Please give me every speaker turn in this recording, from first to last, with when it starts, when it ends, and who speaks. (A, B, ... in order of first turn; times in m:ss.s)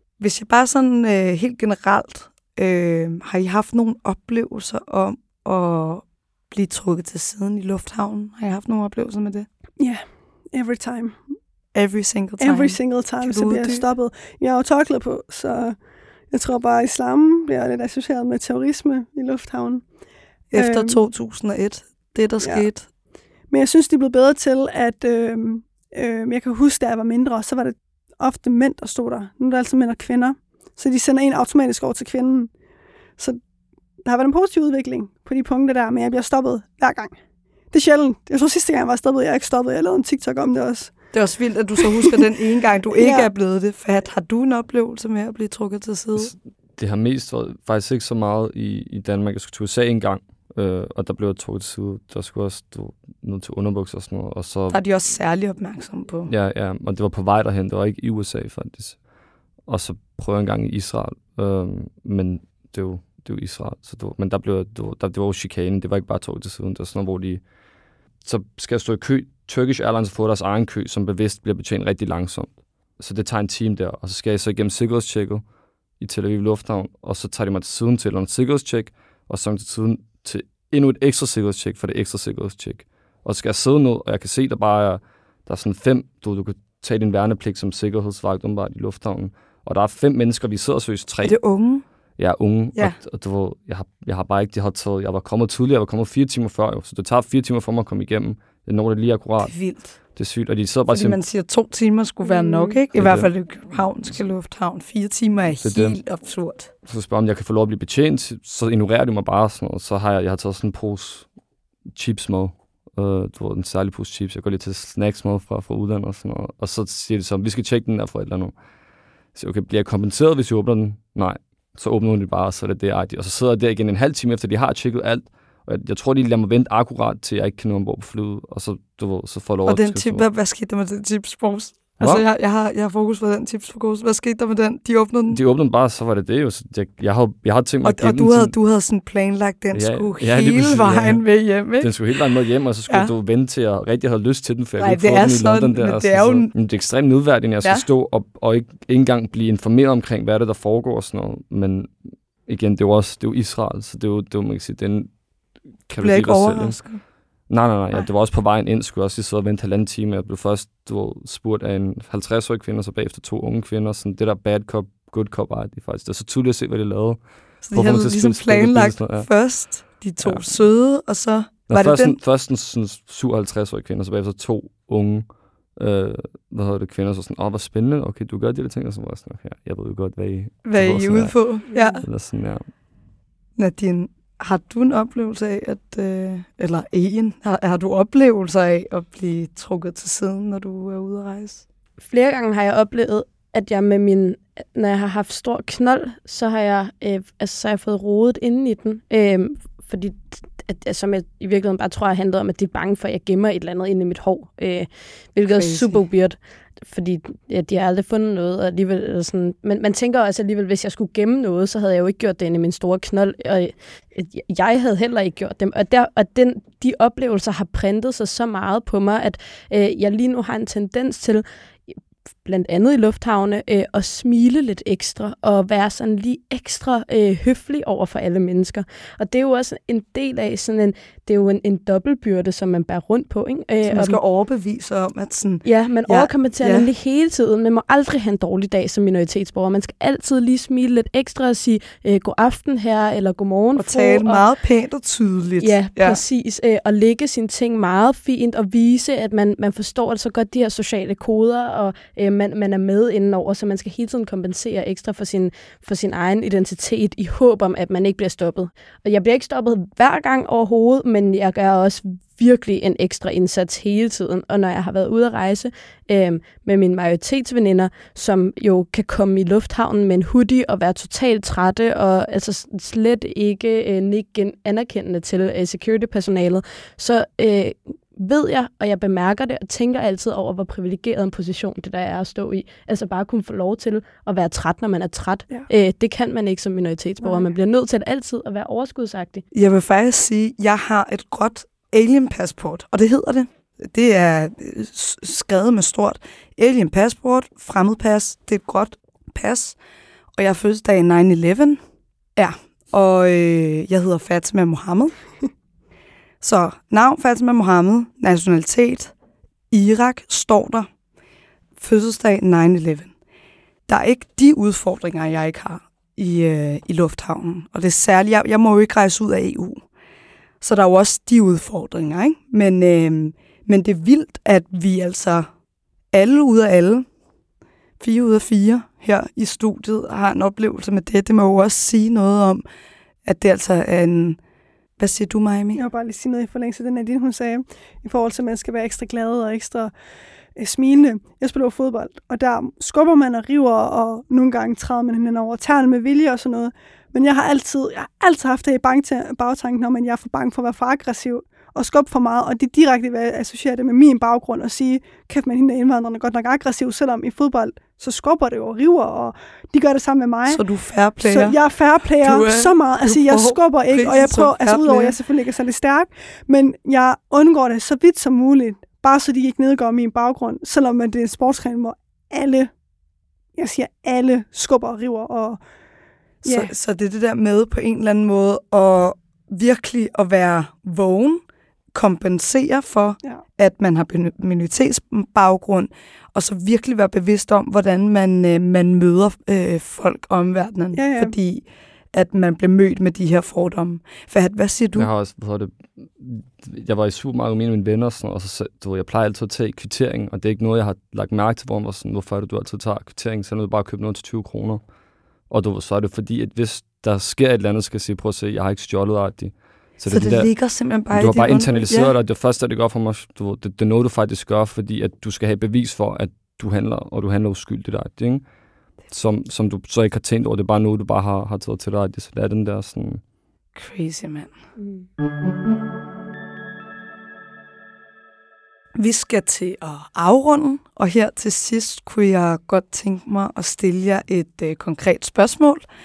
0:00.2-0:09.5 A
0:09.8-0:11.2 B
0:11.7-0:13.8 A
0:12.4-0:15.8 B
0:16.3-0:19.8 B
0:20.5-0:22.9 A
0:20.5-0:21.0 B
0:23.5-0:32.5 B
0:34.0-0:37.2 B
0:37.7-0:41.0 B
0:41.1-0:46.3 A
0:41.8-0:42.2 B
0:43.0-0:43.3 B
0:46.2-0:54.8 C
0:54.7-0:56.3 A
0:56.3-0:59.0 C
0:59.7-1:07.4 C
1:08.2-1:15.4 C
1:16.0-1:31.4 C
1:31.2-1:31.8 A
1:32.2-1:39.6 C
1:39.4-1:40.0 A
1:40.2-1:41.2 C
1:40.9-1:46.7 A
1:42.9-1:43.3 C
1:45.6-1:46.0 C
1:46.9-1:51.3 C
1:51.9-1:58.5 C
1:59.4-2:10.2 C
2:09.7-2:15.4 A
2:15.3-2:18.5 C
2:17.8-2:22.3 A
2:19.7-2:21.2 C
2:21.8-2:31.9 C
2:24.8-2:26.5 A
2:32.5-2:35.1 C
2:35.9-2:36.8 C
2:36.0-2:37.0 A
2:37.5-2:49.3 C
2:47.6-2:52.2 A
2:50.2-2:50.6 C
2:51.7-2:55.3 C
2:55.8-3:01.4 C
3:00.6-3:02.1 A
3:01.7-3:02.0 B
3:02.0-3:02.7 C
3:03.6-3:11.6 A
3:12.0-3:41.9 D
3:25.5-3:26.1 A
3:42.4-3:54.2 D
3:53.8-3:56.9 A
3:55.6-4:04.4 D
4:03.8-4:06.2 A
4:05.6-4:49.4 D
4:47.2-4:47.5 B
4:49.5-4:59.8 A
5:00.4-5:01.8 A
5:02.4-5:05.1 A
5:06.4-5:09.1 A
5:09.7-5:10.9 A
5:11.8-5:13.1 A
5:13.9-5:19.8 A
5:20.6-5:25.5 A
5:26.1-5:27.1 A
5:28.0-5:32.6 A
5:33.2-5:34.4 A
5:35.0-5:35.8 A
5:35.7-5:39.9 B
5:40.6-6:00.6 B
6:00.5-6:01.6 A
6:01.2-6:12.7 B
6:02.2-6:05.2 A
6:13.6-6:15.6 B
6:16.4-6:35.1 A
6:16.4-6:16.7 B
6:30.9-6:31.4 B
6:35.0-6:44.8 C
6:45.5-6:50.5 C
6:50.1-6:52.1 A
6:51.1-6:58.4 C
6:59.1-7:03.2 C
7:03.8-7:04.5 A
7:09.0-7:15.8 A